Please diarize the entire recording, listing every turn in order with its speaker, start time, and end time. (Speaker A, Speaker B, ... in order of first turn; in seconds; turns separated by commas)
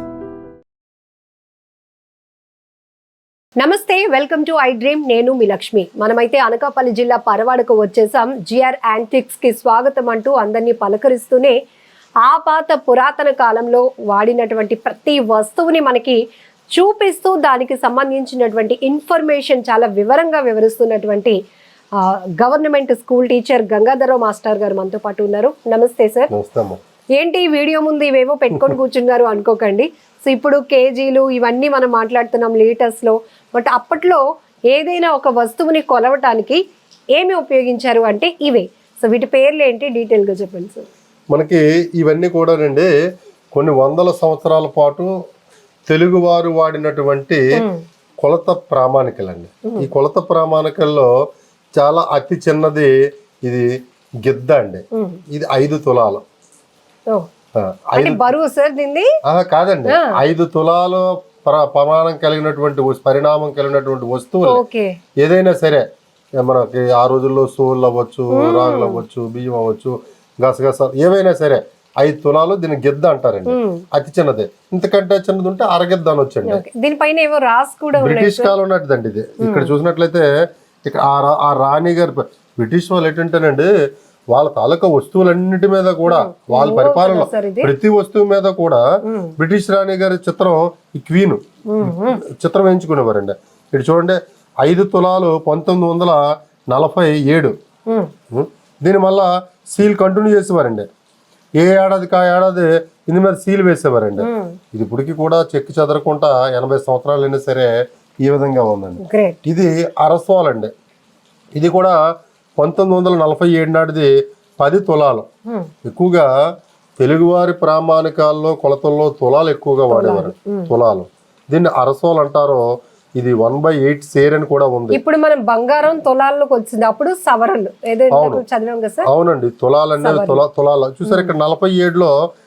Speaker A: 3.6-11.6, Speaker A: 12.2-16.2, Speaker A: 16.7-21.4, Speaker A: 22.0-26.3, Speaker B: 26.3-26.8, Speaker A: 27.2-36.6, Speaker A: 37.1-40.9, Speaker B: 41.3-42.9, Speaker B: 43.5-45.1, Speaker B: 45.9-47.4, Speaker A: 47.6-47.8, Speaker B: 48.2-51.1, Speaker B: 51.8-52.9, Speaker B: 54.2-56.2, Speaker A: 54.9-55.2, Speaker B: 57.5-58.3, Speaker A: 58.0-59.1, Speaker B: 59.3-64.6, Speaker A: 59.9-60.1, Speaker A: 64.4-65.0, Speaker B: 65.2-65.8, Speaker B: 66.4-76.6, Speaker A: 68.3-69.0, Speaker A: 73.5-73.8, Speaker A: 76.5-78.5, Speaker B: 78.0-80.2, Speaker A: 79.4-79.7, Speaker B: 80.8-83.7, Speaker B: 84.3-88.8, Speaker A: 86.1-87.7, Speaker A: 89.0-89.3, Speaker B: 89.4-97.5, Speaker A: 91.7-92.2, Speaker B: 98.3-100.8, Speaker B: 101.6-107.7, Speaker A: 104.2-104.6, Speaker B: 108.2-110.7, Speaker A: 109.0-109.4, Speaker B: 111.6-112.0, Speaker B: 112.6-115.3, Speaker B: 115.8-116.3, Speaker B: 117.0-122.6, Speaker A: 119.9-120.7, Speaker B: 123.2-125.0, Speaker A: 124.9-129.1, Speaker B: 128.1-128.4, Speaker B: 129.1-132.1, Speaker A: 130.0-130.4, Speaker A: 131.1-131.3